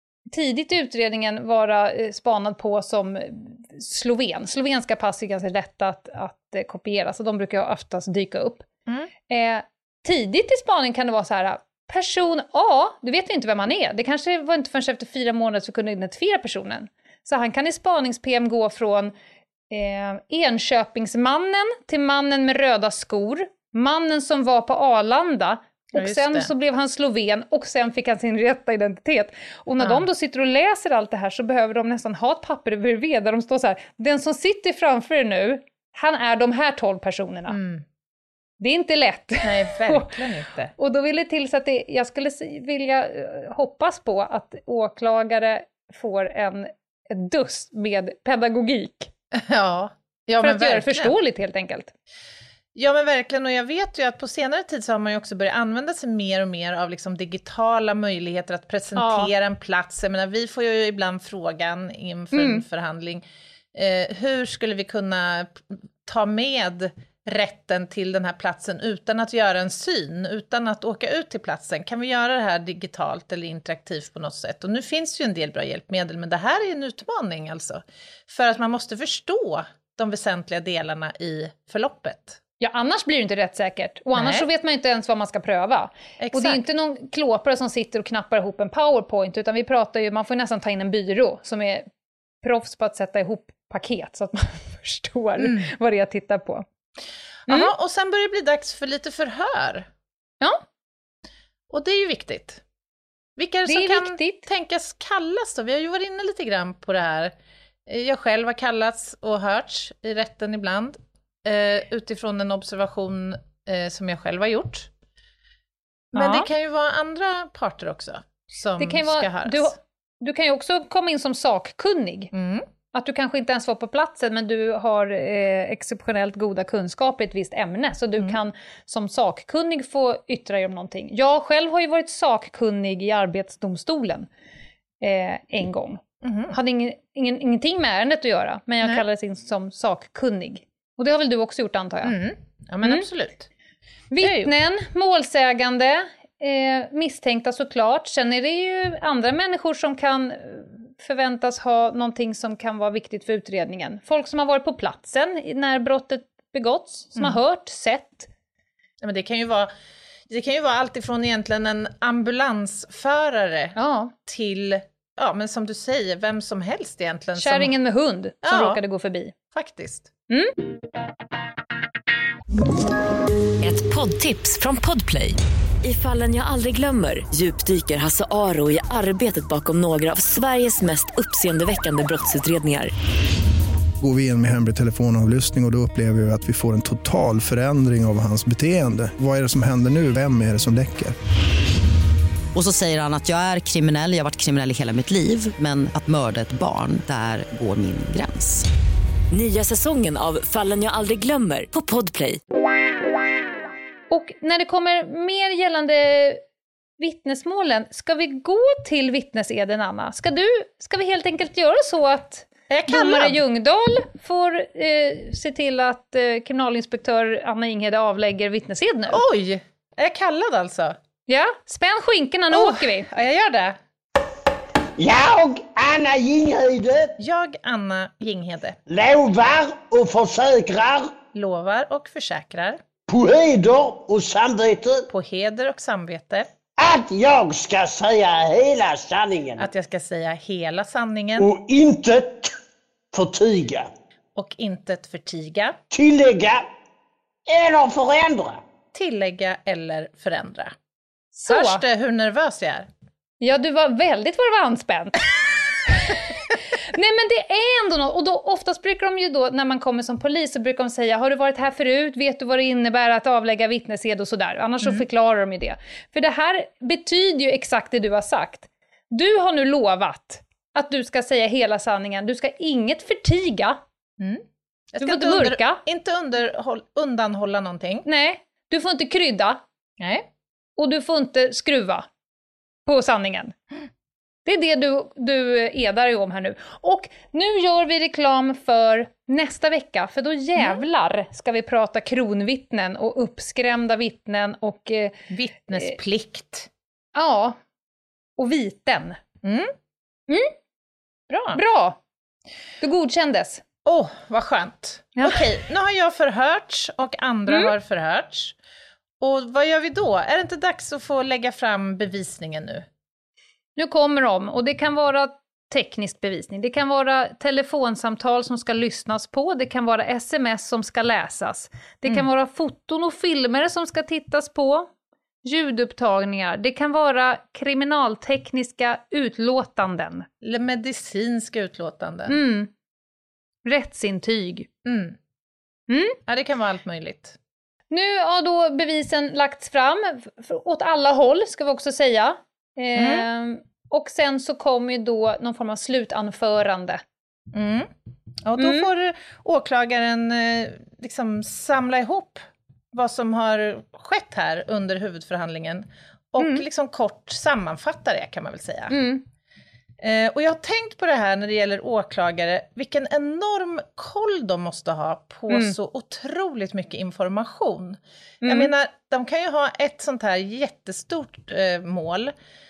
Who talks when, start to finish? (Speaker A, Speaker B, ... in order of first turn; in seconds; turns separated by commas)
Speaker A: 0.3-8.7, Speaker A: 9.3-19.1, Speaker A: 19.7-37.6, Speaker B: 25.9-26.5, Speaker B: 29.8-30.1, Speaker B: 37.5-37.8, Speaker A: 38.6-40.1, Speaker B: 39.4-40.7, Speaker A: 40.8-49.1, Speaker B: 49.3-51.1, Speaker A: 50.4-51.9, Speaker B: 52.7-82.4, Speaker A: 59.0-59.3, Speaker A: 62.3-62.6, Speaker A: 82.6-91.9, Speaker B: 84.1-84.5, Speaker B: 86.2-86.6, Speaker A: 92.4-96.7, Speaker B: 95.4-95.7, Speaker B: 97.5-99.9, Speaker B: 101.7-102.6, Speaker B: 103.4-107.3, Speaker A: 103.7-104.5, Speaker B: 107.9-114.9, Speaker B: 116.1-119.7, Speaker A: 116.1-116.5, Speaker A: 118.8-122.3, Speaker B: 122.3-122.7, Speaker A: 122.9-134.3, Speaker A: 135.0-142.2, Speaker B: 136.2-136.6, Speaker B: 142.0-143.5, Speaker A: 144.1-158.3, Speaker B: 144.2-144.5, Speaker B: 159.0-159.7, Speaker B: 160.3-167.7, Speaker A: 163.8-164.1, Speaker A: 167.4-169.3, Speaker B: 168.4-168.8, Speaker B: 169.5-170.1, Speaker A: 170.3-170.5, Speaker C: 173.6-182.9, Speaker D: 184.0-191.2, Speaker E: 192.5-198.7, Speaker C: 199.3-202.4, Speaker A: 204.1-206.4, Speaker A: 207.0-219.2, Speaker B: 212.7-213.4, Speaker B: 219.1-221.0, Speaker A: 221.3-223.1, Speaker B: 222.5-223.8, Speaker F: 225.0-227.1, Speaker B: 227.2-228.8, Speaker F: 228.9-231.1, Speaker B: 231.3-232.8, Speaker F: 233.1-235.1, Speaker B: 235.1-236.5, Speaker F: 236.8-239.7, Speaker B: 239.6-241.5, Speaker F: 241.4-242.5, Speaker F: 243.1-243.9, Speaker B: 244.3-245.8, Speaker F: 245.9-246.7, Speaker F: 247.5-248.6, Speaker B: 248.9-250.7, Speaker A: 251.3-251.8, Speaker B: 251.5-252.9, Speaker A: 253.4-255.3, Speaker A: 255.8-273.8, Speaker B: 274.2-278.1, Speaker A: 275.0-275.8, Speaker A: 278.0-279.6, Speaker B: 280.0-280.3, Speaker A: 280.8-282.1, Speaker A: 282.9-283.5, Speaker A: 284.4-295.2, Speaker B: 290.6-290.8, Speaker B: 295.3-296.7, Speaker A: 297.1-297.6, Speaker A: 298.4-299.2, Speaker B: 299.4-299.7, Speaker A: 300.3-300.5, Speaker B: 301.3-301.6, Speaker A: 301.5-302.0, Speaker A: 302.8-303.6, Speaker B: 303.8-308.6, Speaker A: 305.2-305.4, Speaker A: 307.5-307.7, Speaker B: 309.2-312.9, Speaker A: 313.8-324.9, Speaker A: 325.4-330.3, Speaker B: 330.4-332.4, Speaker A: 332.3-332.7, Speaker A: 333.6-334.7, Speaker B: 334.8-335.2, Speaker A: 335.9-336.2, Speaker B: 336.2-337.4, Speaker A: 337.9-347.0, Speaker B: 342.9-343.2, Speaker B: 347.5-347.9, Speaker B: 348.4-359.0, Speaker A: 348.6-348.9, Speaker A: 356.4-356.6, Speaker A: 358.9-359.2, Speaker B: 360.0-372.3, Speaker A: 368.4-368.7